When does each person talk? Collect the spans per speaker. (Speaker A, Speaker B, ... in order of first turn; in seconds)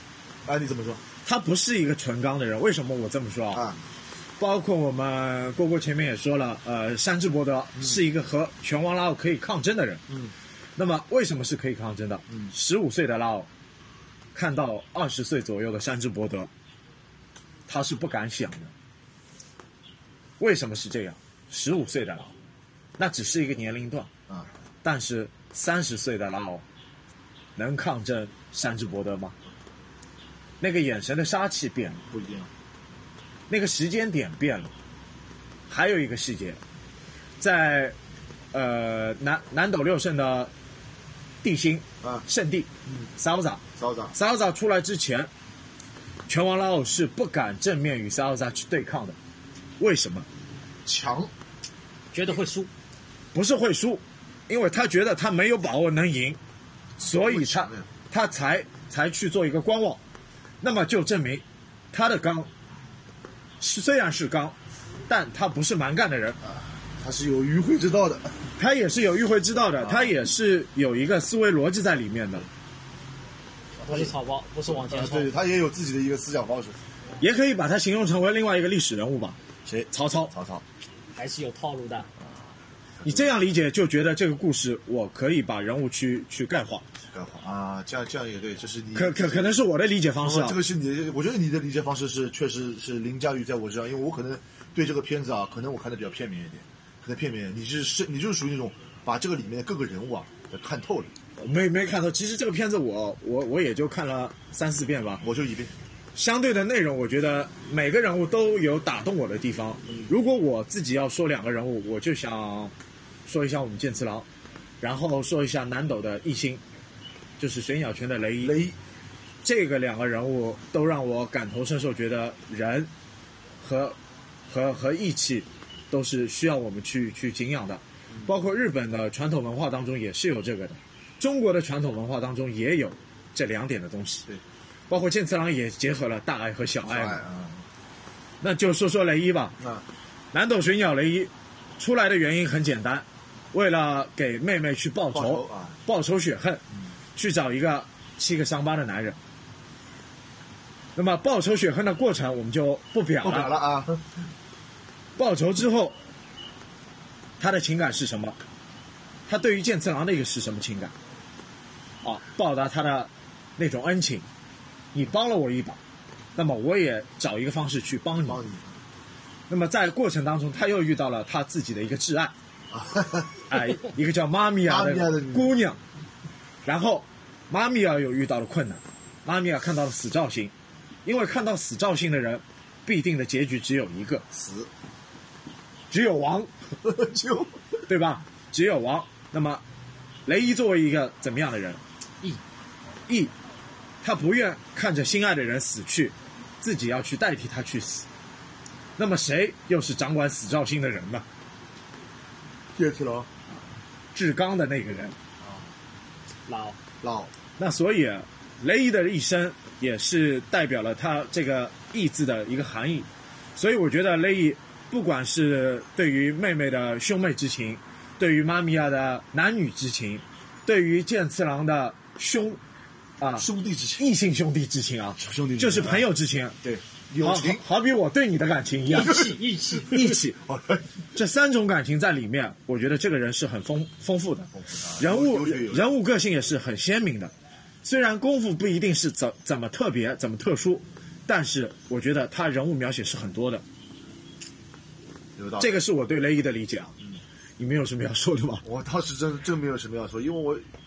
Speaker A: 0.5-1.1, 3.5-3.8, 32.1-32.5, 43.8-44.1, 50.9-51.3, 57.0-57.9, 66.5-68.5, 69.8-70.1, 73.8-74.1, 74.7-76.8, 79.7-80.6, 83.0-83.3, 87.1-89.6, 90.2-101.1, 105.2-105.7, 118.4-118.8, 136.8-137.6, 139.6-139.8, 145.1-145.8, 153.2-154.1, 168.3-168.8, 172.7-173.6, 174.7-175.5, 184.3-184.7, 186.8-187.6, 202.8-203.3, 205.4-205.7, 207.0-207.3, 223.4-224.0, 225.2-226.1, 226.6-227.6, 229.0-229.4, 230.0-230.9, 234.6-235.9, 245.4-245.7, 248.6-250.7
Speaker B: 1.2-3.6, 4.4-10.0, 10.8-13.5, 14.3-16.5, 17.7-18.7, 20.4-22.3, 23.0-24.1, 24.8-26.6, 27.6-29.4, 30.6-32.0, 33.5-34.7, 35.7-36.6, 37.4-38.0, 38.5-40.5, 41.4-43.6, 44.1-45.3, 46.3-49.2, 49.8-50.3, 53.3-56.4, 57.0-60.0, 60.6-62.5, 63.6-64.5, 65.1-66.4, 68.6-72.5, 77.2-79.4, 79.9-80.3, 83.0-86.8, 89.0-90.6, 101.4-105.2, 106.2-112.7, 113.3-114.3, 114.8-116.6, 117.4-118.6, 119.4-122.9, 123.6-124.0, 124.5-134.3, 134.9-137.2, 138.4-139.6, 140.3-146.6, 147.2-149.2, 151.0-153.6, 155.2-156.0, 157.4-158.4, 159.3-160.9, 162.0-164.2, 164.9-165.8, 166.4-168.4, 169.5-172.3, 173.5-175.8, 176.7-180.5, 181.1-184.2, 185.9-186.5, 187.9-189.6, 190.3-191.8, 194.0-198.1, 199.0-201.2, 204.1-205.2, 207.6-222.6, 223.2-226.6, 227.2-230.4, 231.2-237.3, 237.8-243.6, 245.6-247.0, 247.6-248.6
Speaker C: 52.1-52.7, 73.8-75.3, 81.2-82.1, 206.5-206.8, 228.9-230.2